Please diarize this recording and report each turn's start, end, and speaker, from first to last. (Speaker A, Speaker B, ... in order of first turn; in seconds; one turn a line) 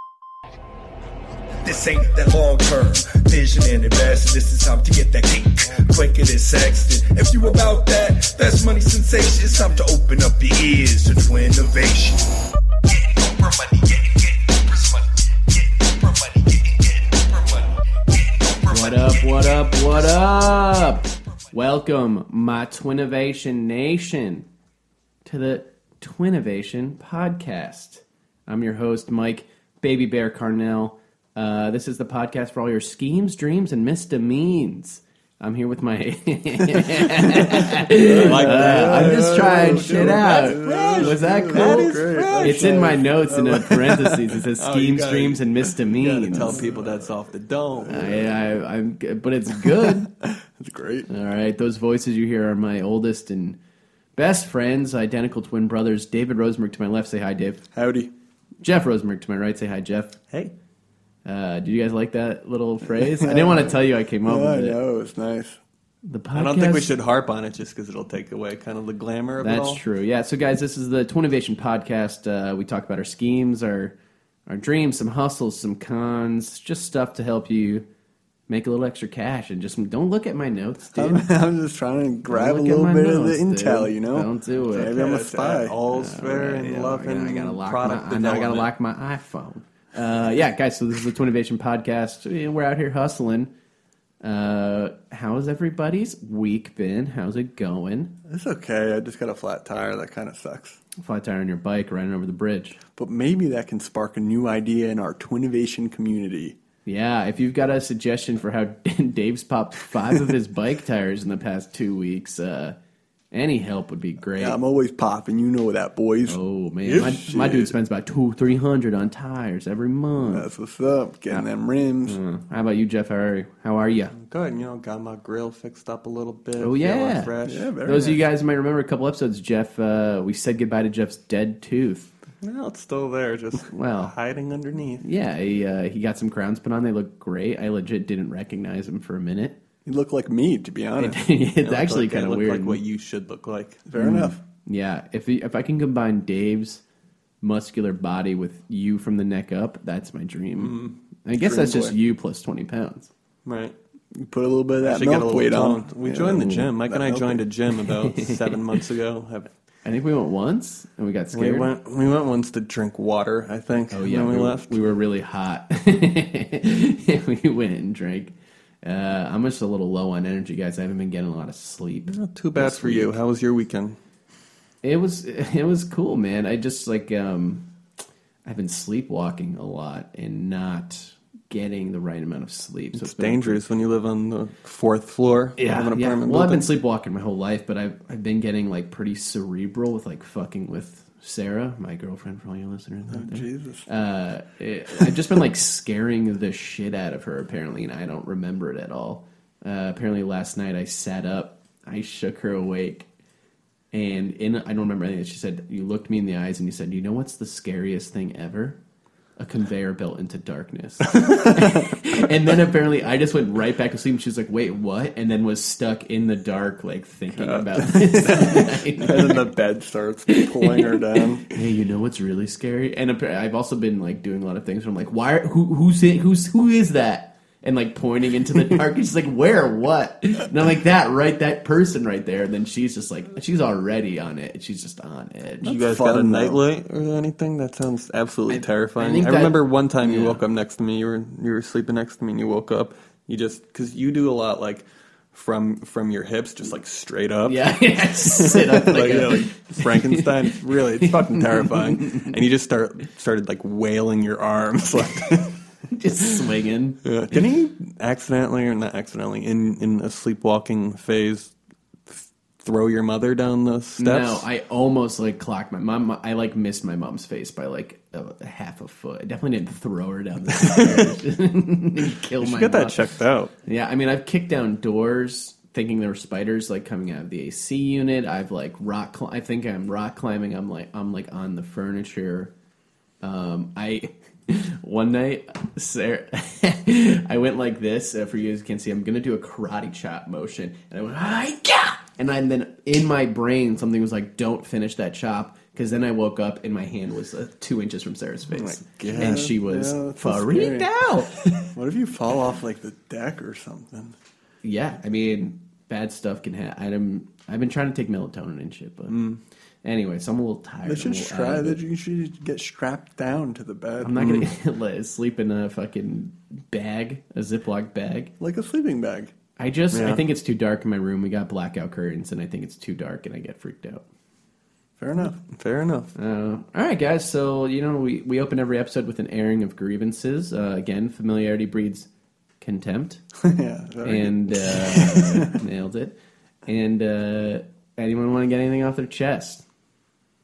Speaker A: 1.6-19.6
Speaker B: 18.7-24.5
Speaker B: 25.2-46.6
Speaker C: 37.4-44.2
Speaker D: 37.9-43.0
Speaker D: 44.6-48.2
Speaker C: 46.3-47.1
Speaker C: 47.8-48.5
Speaker B: 47.9-50.1
Speaker C: 49.8-51.1
Speaker B: 51.1-53.6
Speaker B: 54.2-57.7
Speaker C: 57.7-58.1
Speaker B: 58.6-60.2
Speaker B: 61.2-64.8
Speaker C: 63.0-65.6
Speaker B: 66.0-66.9
Speaker D: 66.3-69.8
Speaker B: 69.4-74.0
Speaker B: 74.5-77.9
Speaker B: 78.5-81.3
Speaker C: 80.9-85.8
Speaker B: 82.3-85.1
Speaker D: 84.9-88.7
Speaker B: 85.9-93.5
Speaker B: 94.2-98.2
Speaker C: 98.3-100.8
Speaker B: 101.0-102.8
Speaker C: 103.0-106.6
Speaker B: 106.8-112.8
Speaker B: 113.3-114.6
Speaker C: 114.3-117.7
Speaker B: 116.3-120.5
Speaker C: 120.2-122.2
Speaker B: 122.1-124.1
Speaker D: 124.1-128.2
Speaker B: 126.6-127.3
Speaker C: 127.4-128.2
Speaker B: 127.8-132.1
Speaker D: 132.4-135.1
Speaker B: 133.7-134.1
Speaker B: 135.0-139.6
Speaker C: 139.8-141.2
Speaker B: 141.0-142.8
Speaker D: 141.6-143.9
Speaker C: 143.9-144.4
Speaker B: 144.0-146.8
Speaker B: 147.4-153.1
Speaker C: 151.4-152.0
Speaker D: 153.4-153.8
Speaker C: 154.1-157.5
Speaker D: 154.8-159.5
Speaker B: 158.0-158.6
Speaker B: 159.8-161.7
Speaker D: 161.3-164.8
Speaker B: 163.9-173.2
Speaker D: 172.1-174.0
Speaker B: 174.8-177.7
Speaker B: 178.4-183.6
Speaker D: 182.9-186.7
Speaker B: 185.6-203.1
Speaker C: 193.1-193.9
Speaker B: 203.9-208.8
Speaker B: 209.4-219.4
Speaker D: 217.4-218.7
Speaker C: 218.1-221.5
Speaker B: 220.3-235.8
Speaker D: 235.6-255.6
Speaker C: 235.7-236.6
Speaker B: 238.5-240.4
Speaker B: 247.5-252.3
Speaker B: 255.9-257.0
Speaker D: 257.0-261.5
Speaker D: 262.1-264.5
Speaker B: 264.0-273.0
Speaker D: 272.4-273.5
Speaker B: 273.7-282.5
Speaker B: 283.2-301.7
Speaker C: 298.6-304.1
Speaker D: 299.0-299.5
Speaker B: 304.6-309.2
Speaker B: 309.8-311.8
Speaker C: 310.9-314.4
Speaker B: 314.0-318.3
Speaker D: 314.1-314.5
Speaker C: 318.4-319.3
Speaker B: 319.6-324.0
Speaker D: 319.9-320.2
Speaker C: 325.0-325.4
Speaker D: 325.4-326.1
Speaker B: 326.2-332.1
Speaker B: 332.6-333.2
Speaker C: 333.4-335.6
Speaker B: 334.0-336.2
Speaker B: 336.7-339.6